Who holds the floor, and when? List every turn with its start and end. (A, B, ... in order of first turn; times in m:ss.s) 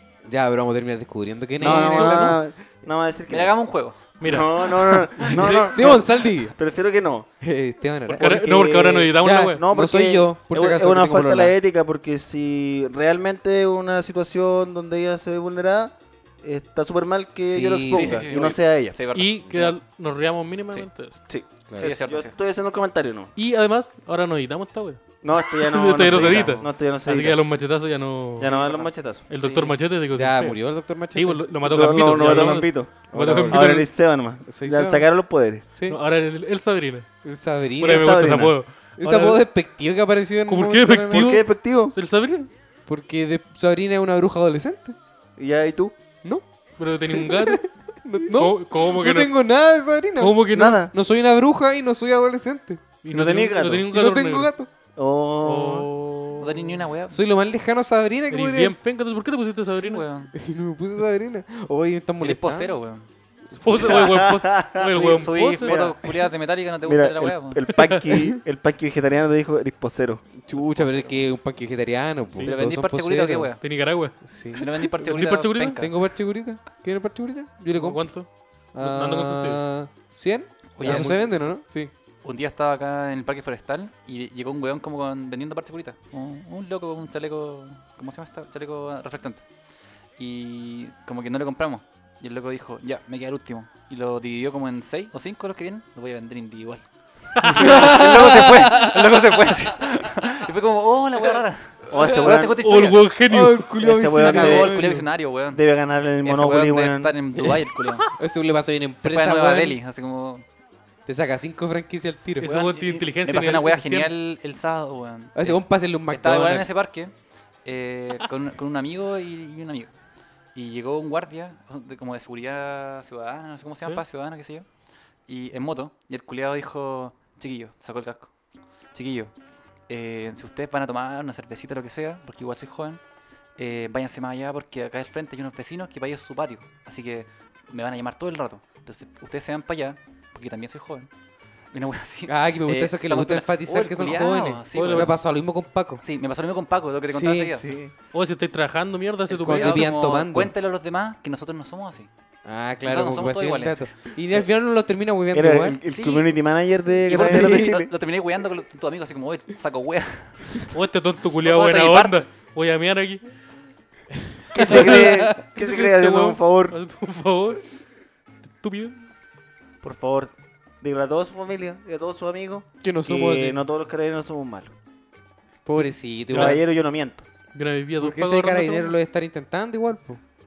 0:00.2-0:02.4 A
0:01.6-0:03.5 B
0:01.7-0:02.3 C
0:01.7-0:02.3 D
0:03.3-0:04.0 C
0:04.2-0:05.7 D
0:04.2-0:07.3 B
0:04.7-0:05.8 C
0:05.3-0:06.6 A
0:07.4-0:08.5 A
0:08.1-0:09.6 D
0:08.1-0:19.0 B
0:09.2-0:11.6 A
0:17.4-0:18.3 A
0:17.9-0:19.7 C
0:19.1-0:21.2 D
0:21.3-0:23.3 B
0:21.7-0:21.9 A
0:21.8-0:22.4 C
0:23.4-0:28.5 D
0:25.2-0:27.4 B
0:28.4-0:29.2 B
0:28.4-0:29.8 C
0:29.3-0:33.9 D
0:30.1-0:33.8 A
0:31.6-0:35.6 B
0:34.5-0:35.1 A
0:35.9-0:37.1 D
0:37.2-0:38.4 A
0:37.8-0:39.4 D
0:37.8-0:38.6 B
0:39.0-0:41.3 A
0:40.5-0:42.5 D
0:41.1-0:41.9 B
0:42.9-0:45.0 A
0:45.4-0:46.0 B
0:46.8-0:47.6 D
0:47.1-0:52.8 A
0:48.3-0:49.3 D
0:50.2-0:50.8 D
0:50.5-0:50.9 B
0:53.0-0:54.5 D
0:53.1-0:53.9 B
0:53.9-0:54.7 A
0:55.0-0:55.9 B
0:55.4-0:56.8 D
0:56.4-0:57.2 C
0:57.1-0:58.8 A
0:58.3-1:00.0 D
0:59.7-1:00.3 C
1:00.3-1:02.8 A
1:02.2-1:03.1 C
1:03.5-1:05.8 D
1:03.7-1:06.1 B
1:04.9-1:07.6 C
1:06.8-1:10.2 B
1:07.7-1:08.2 D
1:10.4-1:13.6 A
1:10.5-1:11.3 C
1:12.4-1:13.6 C
1:13.6-1:15.8 D
1:14.2-1:14.7 A
1:14.6-1:16.0 C
1:15.8-1:18.2 A
1:17.7-1:19.6 D
1:18.7-1:21.9 A
1:20.8-1:21.4 C
1:20.8-1:21.2 D
1:22.2-1:29.4 C
1:30.2-1:36.8 C
1:37.4-1:37.8 D
1:37.4-1:43.0 C
1:37.6-1:39.5 A
1:41.9-1:42.6 B
1:42.0-1:42.3 A
1:42.6-1:43.7 D
1:43.3-1:45.0 A
1:43.8-1:47.1 B
1:44.2-1:45.6 C
1:46.2-1:48.1 C
1:47.4-1:49.8 A
1:49.0-1:50.4 C
1:51.1-1:52.5 A
1:52.4-1:54.1 D
1:52.4-1:57.1 C
1:55.4-1:56.7 A
1:57.6-1:59.9 C
2:00.6-2:04.7 C
2:05.3-2:08.3 C
2:08.9-2:09.3 C
2:09.9-2:13.0 C
2:13.6-2:21.1 C
2:21.7-2:25.2 C
2:22.3-2:26.0 A
2:24.7-2:25.2 D
2:26.0-2:27.7 C
2:27.1-2:27.6 A
2:27.6-2:27.9 B
2:28.1-2:29.9 D
2:29.3-2:32.1 C
2:29.4-2:30.5 A
2:32.4-2:35.8 A
2:32.8-2:34.0 C
2:35.3-2:37.9 B
2:35.9-2:36.3 C
2:37.1-2:40.7 C
2:37.1-2:37.8 A
2:40.7-2:43.2 D
2:41.4-2:42.2 C
2:44.2-2:45.4 A
2:44.5-2:46.8 B
2:44.6-2:47.7 D
2:48.5-2:49.0 D
2:49.8-2:54.7 B
2:52.8-2:53.6 A
2:55.6-2:56.6 A
2:56.3-2:57.2 B
2:56.3-2:56.6 D
2:57.5-2:59.0 D
2:58.0-3:00.2 A